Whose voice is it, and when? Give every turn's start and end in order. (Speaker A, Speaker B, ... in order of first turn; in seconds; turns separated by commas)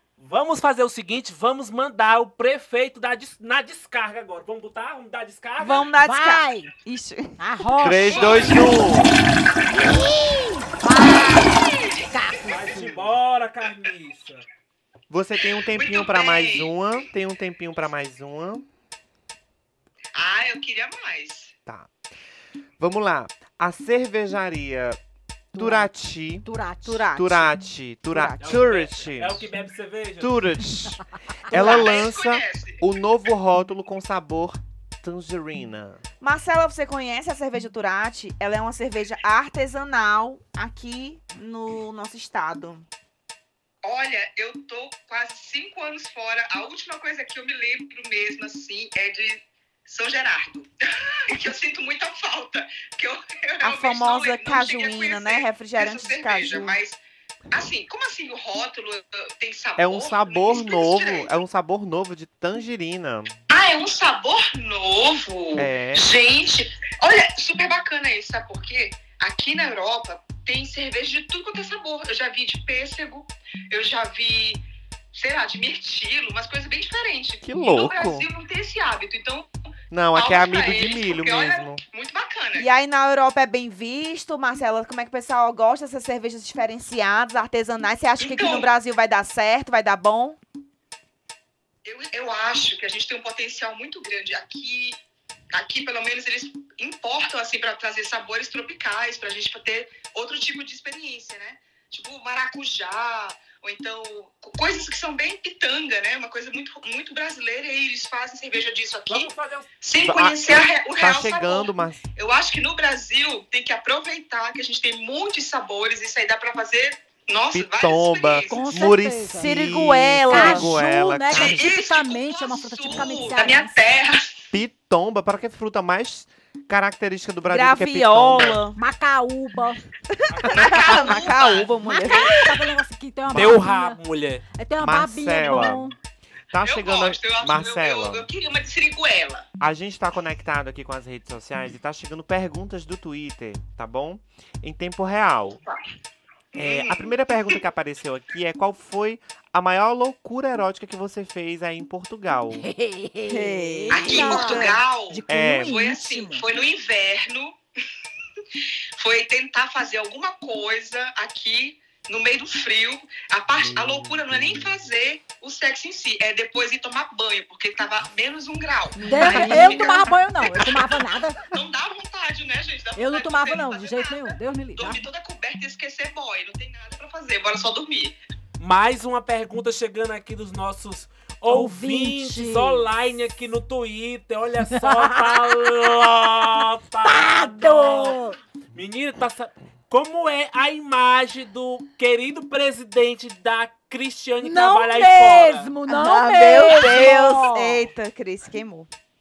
Speaker A: 0.2-5.9, Speaker B: 5.6-7.4, Speaker C: 6.0-6.7, Speaker C: 7.4-8.6, Speaker D: 7.8-9.2, Speaker E: 8.1-8.7, Speaker C: 9.7-12.8, Speaker A: 12.5-14.5, Speaker D: 15.1-18.7, Speaker E: 15.7-16.8, Speaker E: 20.1-21.5, Speaker D: 22.8-25.0, Speaker C: 25.5-25.9, Speaker D: 25.6-26.5, Speaker C: 26.4-27.1, Speaker B: 26.9-27.5, Speaker D: 27.1-29.5, Speaker B: 28.1-28.7, Speaker A: 28.4-30.4, Speaker D: 30.2-36.0, Speaker E: 31.5-32.8, Speaker B: 31.5-31.9, Speaker B: 36.2-42.9, Speaker E: 43.8-57.0, Speaker B: 53.6-56.8, Speaker E: 57.5-61.3, Speaker D: 59.8-63.4, Speaker E: 63.5-74.6, Speaker D: 65.6-66.1, Speaker E: 75.1-79.5, Speaker D: 77.4-78.3, Speaker D: 79.9-81.8, Speaker E: 80.1-82.7, Speaker B: 82.6-90.4, Speaker E: 88.2-88.7, Speaker E: 91.8-95.0, Speaker E: 95.5-118.9, Speaker A: 109.1-109.7, Speaker D: 110.0-112.0, Speaker D: 117.5-121.7, Speaker C: 118.5-119.5, Speaker B: 119.3-120.7, Speaker C: 120.3-123.8, Speaker E: 121.3-124.4, Speaker D: 124.5-128.6, Speaker B: 127.5-128.8, Speaker C: 128.8-129.8, Speaker B: 130.1-132.5, Speaker A: 130.3-130.8, Speaker E: 130.5-132.4, Speaker C: 131.8-134.0, Speaker D: 133.3-133.6, Speaker A: 133.3-134.4, Speaker C: 134.6-135.9, Speaker D: 134.8-135.9, Speaker D: 136.5-138.3, Speaker E: 136.6-139.5, Speaker D: 139.6-145.6, Speaker E: 146.6-147.6, Speaker D: 146.6-152.7, Speaker C: 152.6-156.4, Speaker B: 153.3-154.8, Speaker E: 153.9-157.6, Speaker D: 155.3-155.8, Speaker E: 159.0-178.2, Speaker D: 163.6-164.7, Speaker B: 169.0-170.1, Speaker C: 169.0-171.4, Speaker C: 173.0-175.0, Speaker A: 178.6-188.2, Speaker C: 181.5-182.9, Speaker C: 184.7-185.9, Speaker C: 187.1-188.4, Speaker A: 188.7-195.7, Speaker C: 194.4-197.9, Speaker B: 195.9-198.9